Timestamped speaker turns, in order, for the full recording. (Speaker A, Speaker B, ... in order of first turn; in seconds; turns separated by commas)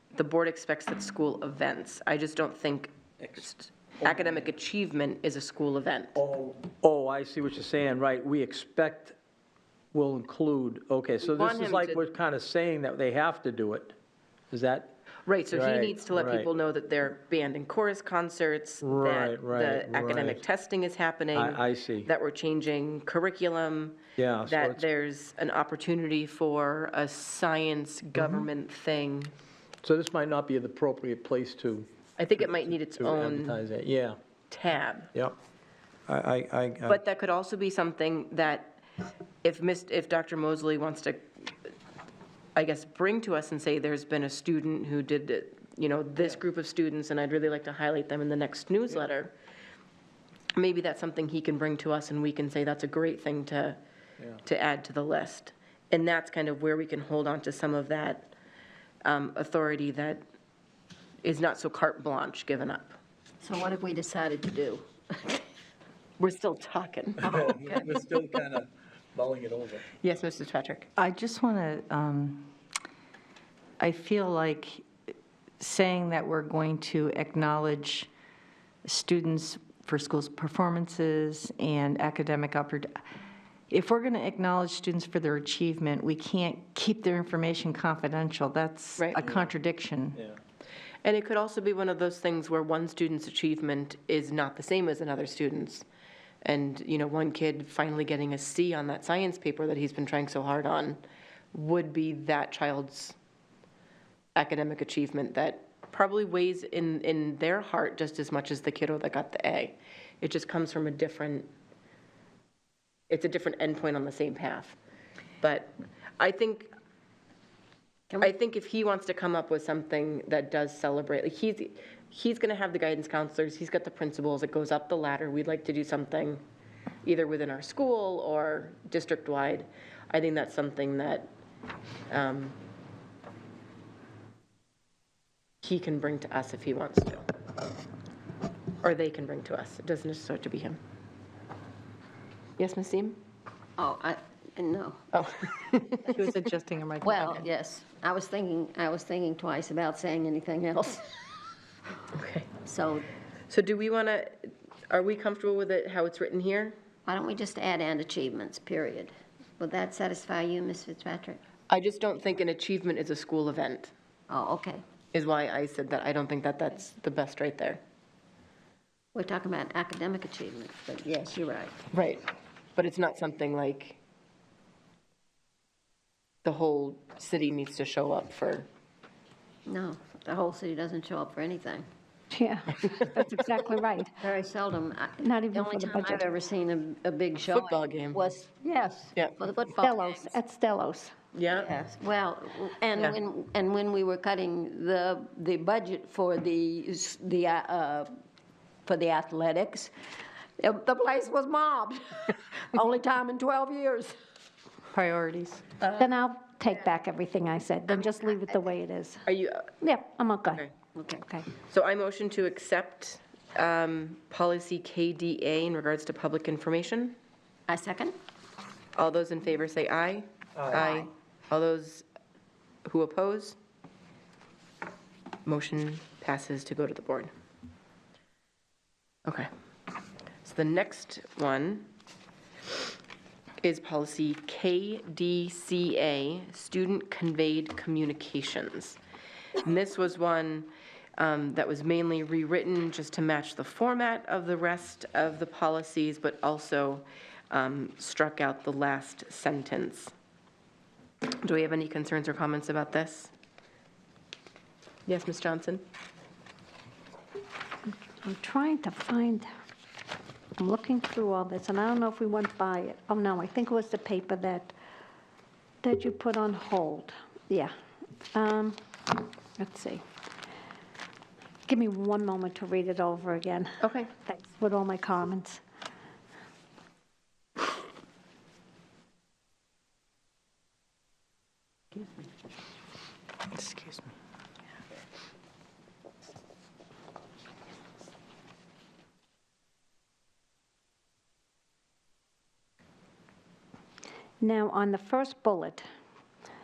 Speaker A: 0.1-6.2, Speaker B: 4.0-4.3, Speaker B: 6.2-9.2, Speaker B: 9.9-13.9, Speaker A: 11.2-12.1, Speaker B: 14.5-14.9, Speaker A: 15.2-29.3, Speaker B: 15.5-16.5, Speaker B: 18.8-20.4, Speaker B: 21.3-22.1, Speaker B: 24.2-24.8, Speaker B: 28.1-28.4, Speaker B: 29.8-31.9, Speaker A: 32.2-33.7, Speaker B: 32.4-34.2, Speaker A: 34.5-35.1, Speaker B: 36.1-37.0, Speaker A: 36.8-38.8, Speaker A: 39.4-41.3, Speaker A: 42.5-49.3, Speaker A: 50.5-53.8, Speaker A: 54.4-58.3, Speaker A: 59.0-60.2, Speaker A: 61.2-63.0, Speaker C: 63.4-65.4, Speaker A: 66.2-67.4, Speaker B: 67.2-69.8, Speaker C: 67.3-67.8, Speaker A: 68.1-68.4, Speaker A: 70.0-70.9, Speaker D: 71.0-72.5, Speaker D: 73.8-74.9, Speaker D: 75.6-78.1, Speaker D: 78.8-82.9, Speaker D: 83.7-90.2, Speaker A: 89.0-89.2, Speaker A: 91.0-95.9, Speaker A: 96.4-103.2, Speaker A: 104.3-111.5, Speaker A: 113.1-114.8, Speaker A: 115.4-116.7, Speaker A: 118.2-126.4, Speaker A: 127.0-131.3, Speaker A: 132.1-132.6, Speaker A: 135.6-137.3, Speaker A: 138.8-140.8, Speaker A: 142.6-143.2, Speaker C: 143.8-145.0, Speaker A: 145.1-146.5, Speaker C: 147.0-151.1, Speaker A: 152.1-152.5, Speaker C: 152.6-153.1, Speaker A: 153.5-156.8, Speaker C: 157.1-161.4, Speaker A: 161.7-163.9, Speaker C: 164.3-164.8, Speaker A: 165.1-167.8, Speaker C: 169.1-171.8, Speaker A: 171.9-172.2, Speaker A: 172.8-174.0, Speaker A: 176.4-178.7, Speaker C: 179.7-181.8, Speaker E: 182.3-184.1, Speaker C: 184.2-190.3, Speaker E: 185.2-186.2, Speaker A: 187.5-188.3, Speaker E: 189.8-191.1, Speaker A: 191.3-191.7, Speaker C: 191.5-198.1, Speaker C: 198.8-199.9, Speaker C: 200.6-204.2, Speaker D: 204.9-205.6, Speaker C: 205.8-206.1, Speaker E: 205.9-209.2, Speaker C: 207.9-208.7, Speaker A: 209.2-209.7, Speaker E: 209.8-210.6, Speaker C: 210.9-211.2, Speaker E: 211.2-211.5, Speaker A: 211.6-217.2, Speaker C: 217.7-218.2, Speaker A: 218.9-222.1, Speaker C: 220.7-221.1, Speaker A: 222.8-223.6, Speaker A: 225.4-227.3, Speaker A: 230.4-231.9, Speaker A: 233.6-239.0, Speaker A: 239.6-250.1, Speaker A: 251.4-253.3, Speaker A: 255.1-255.8, Speaker E: 258.2-259.5, Speaker E: 260.6-264.7, Speaker E: 265.8-267.7, Speaker E: 268.3-270.0, Speaker E: 271.7-275.6, Speaker A: 273.8-274.1, Speaker D: 283.6-284.0, Speaker E: 294.4-295.8